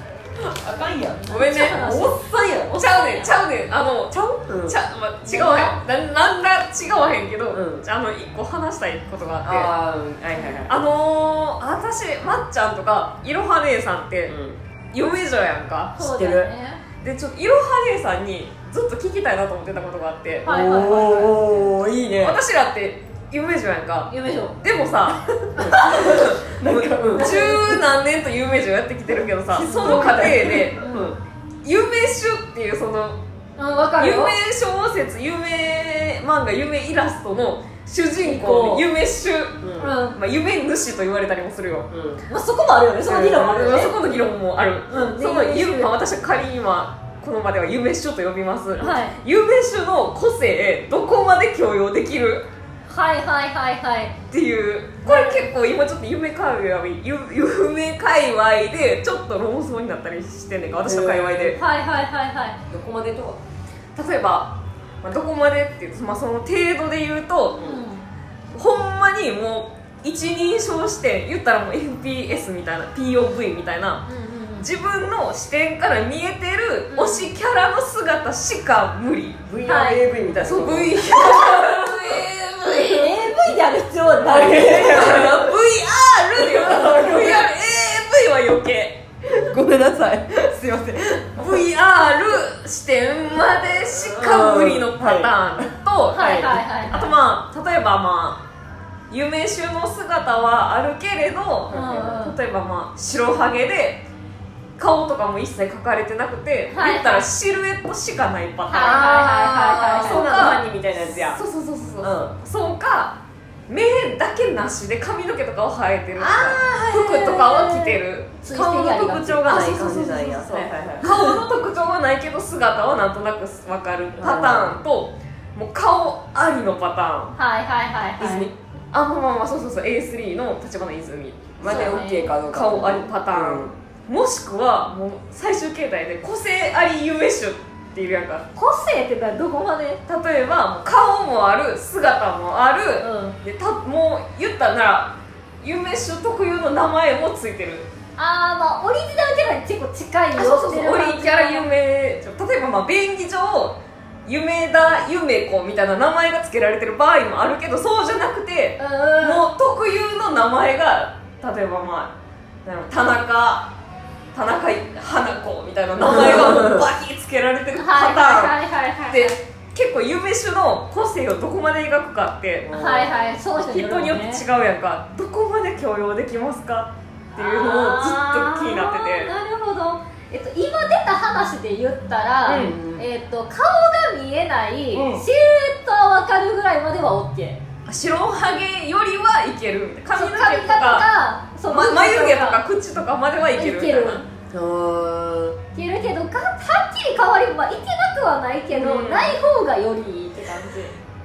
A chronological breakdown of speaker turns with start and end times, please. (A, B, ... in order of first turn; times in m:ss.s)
0:00.4-0:02.8 A
0:01.2-0:03.3 B
0:01.2-0:02.0 C
0:02.7-0:09.7 C
0:04.1-0:04.8 A
0:05.2-0:05.8 B
0:07.5-0:07.8 A
0:09.4-0:10.7 A
0:10.6-0:14.4 C
0:14.3-0:14.6 A
0:14.9-0:16.0 C
0:16.0-0:16.8 B
0:16.0-0:16.5 A
0:17.0-0:20.5 C
0:20.4-0:21.4 B
0:20.4-0:22.4 A
0:22.2-0:24.1 C
0:24.1-0:24.6 B
0:24.6-0:30.8 C
0:25.5-0:27.8 A
0:27.1-0:27.5 B
0:29.5-0:31.2 A
0:29.6-0:31.1 B
0:31.6-0:33.2 C
0:33.6-0:34.4 B
0:34.0-0:41.9 C
0:38.2-0:38.9 B
0:39.6-0:39.9 A
0:39.8-0:40.2 B
0:41.9-0:42.2 A
0:42.3-0:43.9 B
0:43.0-0:52.4 C
0:44.9-0:45.9 B
0:48.8-0:49.2 B
0:52.9-0:54.1 B
0:54.3-1:01.6 C
0:55.0-0:55.5 B
1:00.8-1:01.6 A
1:01.5-1:02.6 B
1:02.7-1:03.4 A
1:04.0-1:07.6 C
1:07.6-1:07.8 A
1:07.6-1:08.1 B
1:08.5-1:14.0 C
1:14.1-1:14.7 B
1:14.6-1:19.5 C
1:16.9-1:17.3 B
1:19.5-1:21.6 A
1:19.6-1:20.0 B
1:20.4-1:23.1 C
1:21.1-1:21.7 B
1:22.6-1:25.2 B
1:24.2-1:25.6 A
1:24.2-1:29.0 C
1:26.3-1:27.4 A
1:29.3-1:31.6 A
1:31.4-1:38.4 C
1:33.9-1:35.6 A
1:36.1-1:37.1 B
1:36.2-1:36.6 A
1:39.1-1:44.0 C
1:41.7-1:42.2 A
1:41.7-1:42.4 B
1:44.8-1:49.1 C
1:46.7-1:47.3 B
1:48.7-1:50.6 B
1:48.7-1:51.4 A
1:49.9-1:58.4 C
1:52.0-1:52.4 A
1:56.2-1:56.8 A
1:56.6-2:00.0 B
1:58.5-2:01.0 A
1:59.4-2:07.3 C
2:01.0-2:01.3 B
2:04.2-2:04.8 A
2:07.3-2:08.5 B
2:08.2-2:08.5 A
2:08.9-2:18.4 C
2:11.6-2:13.7 A
2:11.6-2:12.4 B
2:18.5-2:20.0 B
2:20.0-2:27.9 C
2:23.0-2:23.4 B
2:28.2-2:31.7 B
2:30.4-2:42.1 C
2:38.8-2:39.5 B
2:42.6-2:43.7 C
2:44.3-2:48.6 C
2:46.0-2:46.9 A
2:47.7-2:49.4 B
2:49.1-2:52.7 C
2:52.6-2:53.4 A
2:52.7-2:54.4 B
2:53.6-2:59.4 C
2:57.4-3:07.6 B
3:02.4-3:02.8 C
3:02.5-3:03.0 A
3:04.9-3:05.2 A
3:07.8-3:11.0 C
3:10.1-3:12.6 B
3:11.7-3:14.2 C
3:13.5-3:14.2 B
3:14.5-3:15.6 A
3:15.7-3:21.0 B
3:18.7-3:19.4 C